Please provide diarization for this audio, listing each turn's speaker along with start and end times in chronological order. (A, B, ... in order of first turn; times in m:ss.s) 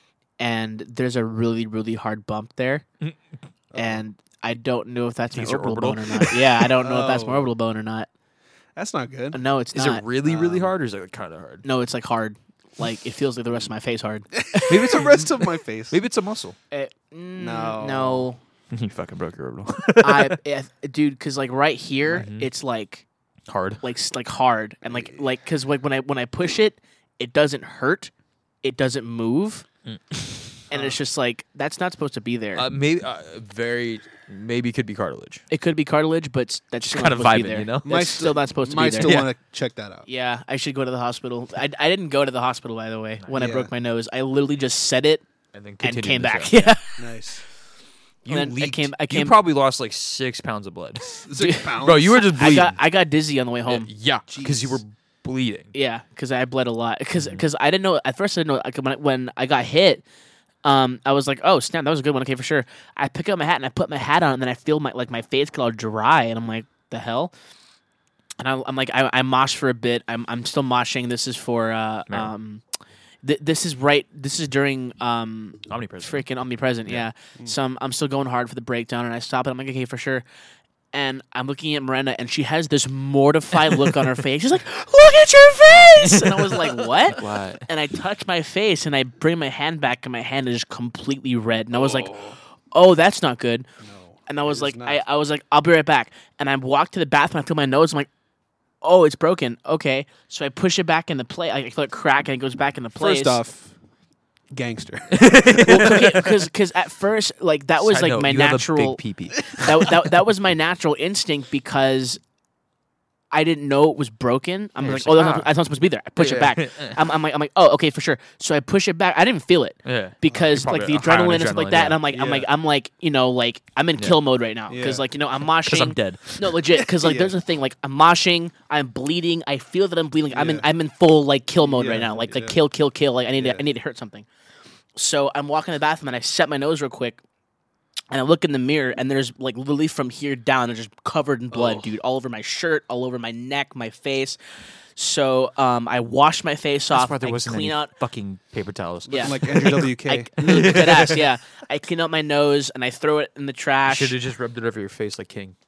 0:00.4-0:02.8 A
0:03.7-0:04.0 B
0:03.8-0:08.1 A
0:05.3-0:06.7 C
0:06.8-0:07.5 B
0:08.8-0:09.4 B
0:09.3-0:10.0 A
0:09.8-0:11.6 C
0:10.2-0:10.7 B
0:11.6-0:15.1 A
0:14.4-0:16.0 B
0:14.7-0:16.6 C
0:16.7-0:18.4 A
0:17.4-0:18.3 B
0:18.7-0:20.4 C
0:20.0-0:23.0 A
0:22.1-0:22.5 C
0:23.5-0:23.8 C
0:23.8-0:28.1 A
0:24.9-0:25.2 B
0:28.6-0:29.6 A
0:29.9-0:30.6 C
0:30.7-0:31.0 B
0:30.7-0:32.6 A
0:32.6-0:35.4 C
0:35.5-0:39.2 A
0:36.8-0:38.3 C
0:37.8-0:40.1 B
0:39.0-0:39.3 C
0:40.1-0:45.2 A
0:43.3-0:43.7 B
0:45.5-0:46.8 C
0:45.8-0:47.0 A
0:47.0-0:47.4 B
0:48.2-0:52.8 C
0:48.3-0:49.4 A
0:51.1-0:52.2 B
0:51.4-0:53.9 A
0:53.7-0:55.7 C
0:54.3-0:54.8 B
0:55.7-1:00.0 A
1:00.6-1:07.3 A
1:08.4-1:12.6 A
1:13.2-1:20.2 A
1:15.7-1:16.3 C
1:20.9-1:32.2 A
1:26.1-1:27.7 C
1:31.7-1:32.4 B
1:32.7-1:33.7 A
1:33.8-1:35.0 B
1:34.3-1:38.1 A
1:38.8-1:43.4 A
1:43.0-1:43.7 B
1:44.5-1:45.8 B
1:45.1-1:46.3 C
1:45.6-1:52.2 A
1:47.8-1:49.9 C
1:53.3-2:14.3 A
1:54.8-1:55.5 C
1:56.2-1:57.0 C
1:59.8-2:02.0 C
2:00.3-2:00.6 B
2:02.1-2:02.5 B
2:04.7-2:05.1 B
2:05.6-2:06.5 C
2:06.9-2:07.3 B
2:10.3-2:10.7 B
2:11.6-2:12.6 B
2:13.3-2:13.6 B
2:15.0-2:17.2 A
2:18.1-2:24.4 A
2:25.0-2:27.9 A
2:26.9-2:31.2 C
2:29.1-2:34.2 A
2:29.2-2:30.9 B
2:33.9-2:35.6 C